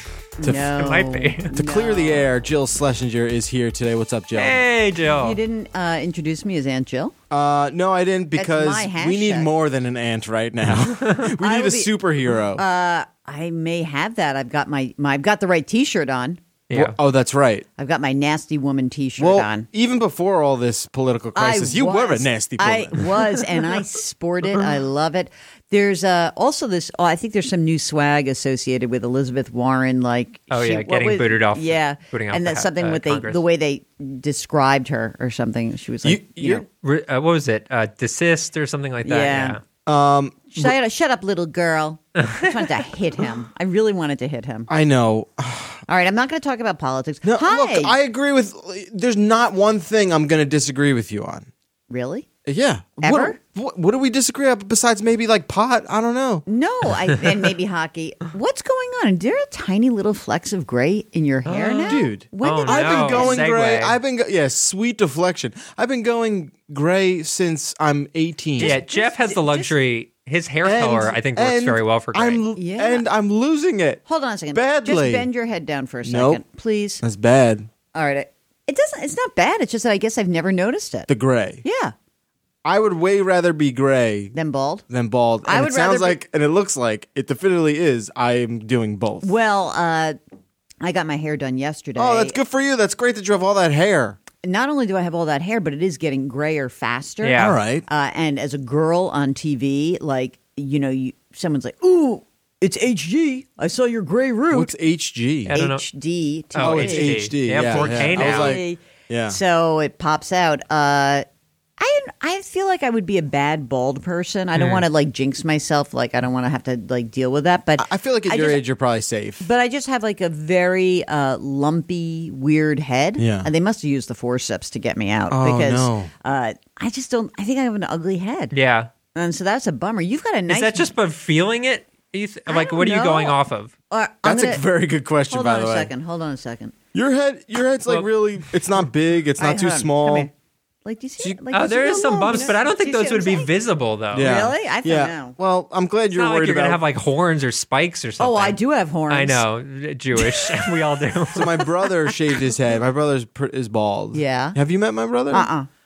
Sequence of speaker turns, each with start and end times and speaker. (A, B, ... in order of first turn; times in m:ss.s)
0:00.4-0:02.2 A
0:00.4-0:00.7 B
0:00.7-0:01.5 C
0:01.5-0:04.6 B
0:04.4-0:05.4 C
0:05.1-0:07.1 A
0:07.3-0:12.6 B
0:08.4-0:09.5 A
0:11.4-0:11.9 A
0:12.5-0:16.4 A
0:16.7-0:17.0 C
0:16.7-0:17.6 B
0:17.8-0:19.6 A
0:19.2-0:23.2 B
0:21.3-0:36.6 A
0:30.5-0:33.4 C
0:36.0-0:36.6 B
0:36.8-0:39.6 C
0:39.0-0:39.6 A
0:39.8-0:40.8 B
0:40.5-0:44.7 A
0:42.2-0:42.7 C
0:44.7-0:45.8 B
0:45.9-0:47.9 A
0:47.2-0:51.5 B
0:51.9-0:52.2 A
0:52.4-0:56.4 B
0:53.0-0:53.4 A
0:56.4-1:03.4 A
1:01.4-1:04.0 C
1:01.8-1:08.8 B
1:08.6-1:09.7 A
1:08.6-1:12.4 C
1:10.6-1:14.0 B
1:12.6-1:13.0 A
1:14.0-1:17.0 A
1:14.5-1:15.3 B
1:16.0-1:16.4 B
1:17.0-1:17.7 B
1:17.9-1:21.1 A
1:21.1-1:21.6 B
1:21.6-1:21.9 A
1:22.6-1:24.3 B
1:24.3-1:24.8 A
1:24.9-1:29.3 B
1:25.4-1:26.2 A
1:29.2-1:30.2 A
1:30.8-1:32.4 A
1:32.0-1:34.2 B
1:34.4-1:44.7 A
1:37.2-1:37.6 C
1:37.4-1:37.8 B
1:44.5-1:45.6 B
1:45.4-1:45.8 C
1:45.5-1:51.2 A
1:46.5-1:48.6 C
1:46.6-1:49.4 B
1:51.8-1:58.6 A
1:54.5-1:54.8 C
1:57.8-1:59.4 B
1:59.4-2:08.5 A
2:03.2-2:03.5 B
2:05.3-2:06.1 B
2:08.5-2:08.9 C
2:09.1-2:10.9 A
2:10.5-2:13.7 C
2:12.5-2:13.4 A
2:13.9-2:14.6 A
2:14.2-2:15.9 B
2:15.3-2:16.7 A
2:16.9-2:20.3 B
2:19.4-2:20.3 A
2:20.8-2:23.5 A
2:21.2-2:21.5 B
2:21.5-2:24.4 C
2:24.1-2:26.8 B
2:24.2-2:25.4 A
2:26.1-2:28.6 C
2:28.2-2:29.4 A
2:29.1-2:31.5 C
2:30.2-2:32.2 A
2:31.3-2:35.5 B
2:34.1-2:34.6 A
2:35.3-2:35.7 A